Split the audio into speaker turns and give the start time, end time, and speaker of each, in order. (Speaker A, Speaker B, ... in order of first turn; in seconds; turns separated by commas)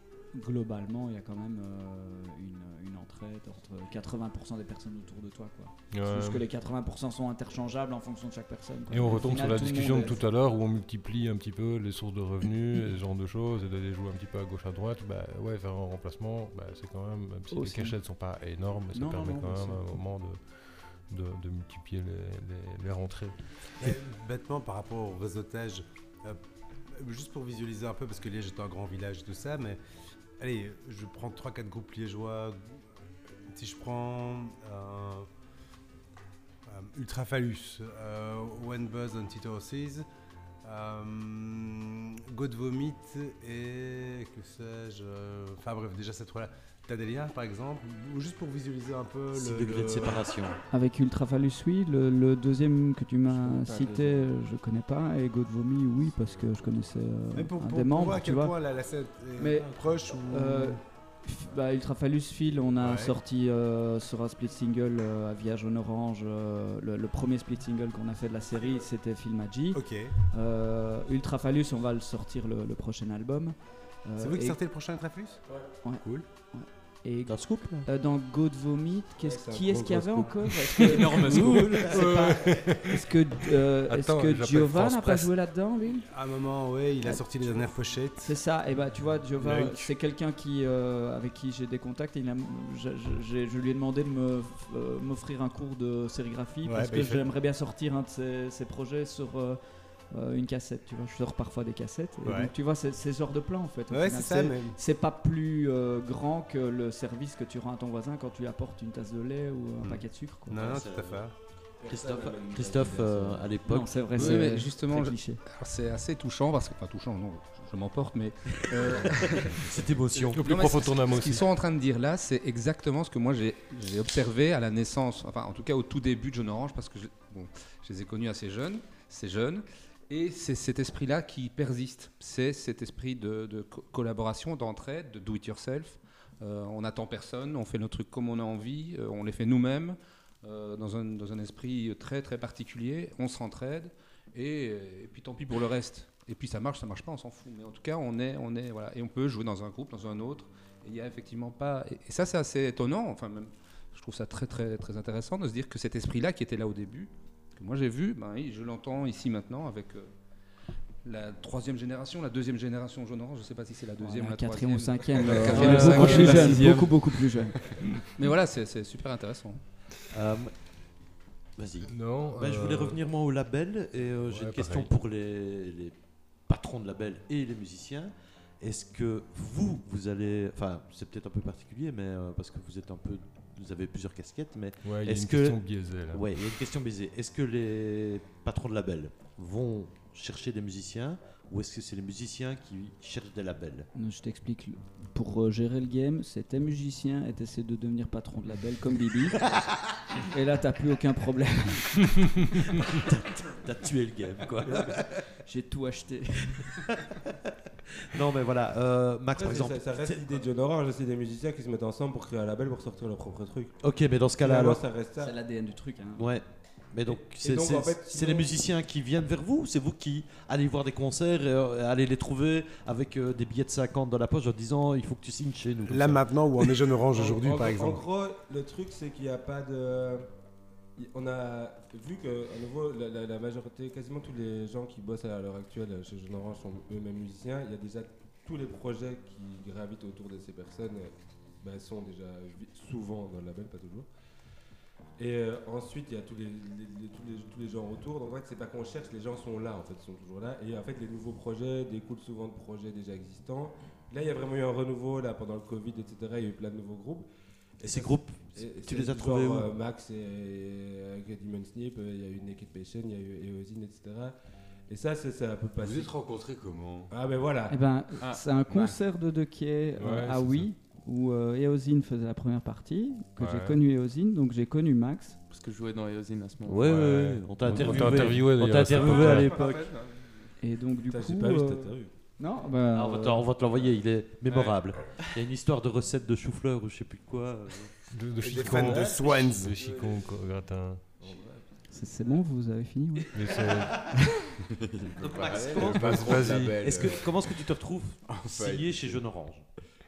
Speaker A: 0.3-10.2, Speaker B: 5.9-6.4, Speaker B: 8.9-23.9, Speaker A: 17.5-18.0, Speaker A: 18.9-20.0, Speaker C: 23.8-29.8, Speaker C: 30.4-32.8, Speaker C: 33.5-35.3, Speaker C: 36.6-40.0, Speaker C: 40.6-50.3, Speaker D: 49.3-50.6, Speaker A: 50.7-58.5, Speaker E: 53.6-54.0, Speaker C: 57.3-60.8, Speaker A: 59.4-74.6, Speaker C: 62.8-63.1, Speaker C: 69.7-70.1, Speaker C: 74.2-75.4, Speaker A: 75.8-86.1, Speaker D: 77.2-77.8, Speaker E: 79.2-80.5, Speaker F: 81.0-81.8, Speaker D: 81.3-81.9, Speaker B: 81.9-83.0, Speaker B: 83.8-85.3, Speaker C: 86.1-88.4, Speaker A: 88.2-110.6, Speaker C: 89.3-89.9, Speaker C: 96.6-97.2, Speaker C: 102.2-102.5, Speaker C: 103.9-104.8, Speaker C: 109.8-111.3, Speaker D: 110.5-114.2, Speaker E: 111.8-113.5, Speaker A: 113.6-115.4, Speaker G: 114.1-119.6, Speaker D: 118.7-120.4, Speaker G: 120.2-160.1, Speaker B: 120.3-121.5, Speaker G: 161.0-169.6, Speaker A: 164.0-167.7, Speaker D: 165.5-166.8, Speaker F: 165.6-166.9, Speaker D: 170.1-170.8, Speaker D: 171.6-193.9, Speaker B: 171.9-173.0, Speaker B: 174.2-174.9, Speaker B: 184.8-186.2, Speaker A: 193.9-199.6, Speaker A: 200.3-202.2, Speaker D: 203.1-205.3, Speaker A: 205.4-206.7, Speaker D: 208.1-210.4, Speaker E: 209.3-215.3, Speaker D: 213.8-214.9, Speaker A: 215.2-216.3, Speaker D: 216.2-226.6, Speaker E: 217.0-218.5, Speaker C: 225.8-228.0, Speaker E: 227.1-230.3, Speaker E: 231.0-244.1, Speaker E: 245.2-257.2, Speaker E: 257.8-264.3, Speaker D: 257.8-259.8, Speaker E: 264.9-266.1, Speaker H: 265.8-267.1, Speaker E: 267.1-267.9, Speaker A: 267.7-275.4, Speaker H: 268.7-268.9, Speaker B: 270.0-270.7, Speaker B: 273.4-273.8, Speaker F: 275.5-277.0, Speaker D: 276.6-279.9, Speaker B: 276.8-279.5, Speaker F: 277.7-278.4, Speaker F: 278.9-280.5, Speaker A: 280.6-283.5, Speaker E: 281.1-282.2, Speaker D: 282.9-288.1, Speaker F: 284.4-285.2, Speaker B: 288.1-291.1, Speaker C: 288.4-289.8, Speaker E: 288.9-290.2, Speaker E: 291.2-291.9, Speaker A: 291.9-293.3, Speaker B: 293.3-294.1, Speaker H: 294.8-297.6, Speaker D: 295.2-299.6, Speaker B: 295.8-296.9, Speaker H: 298.2-299.4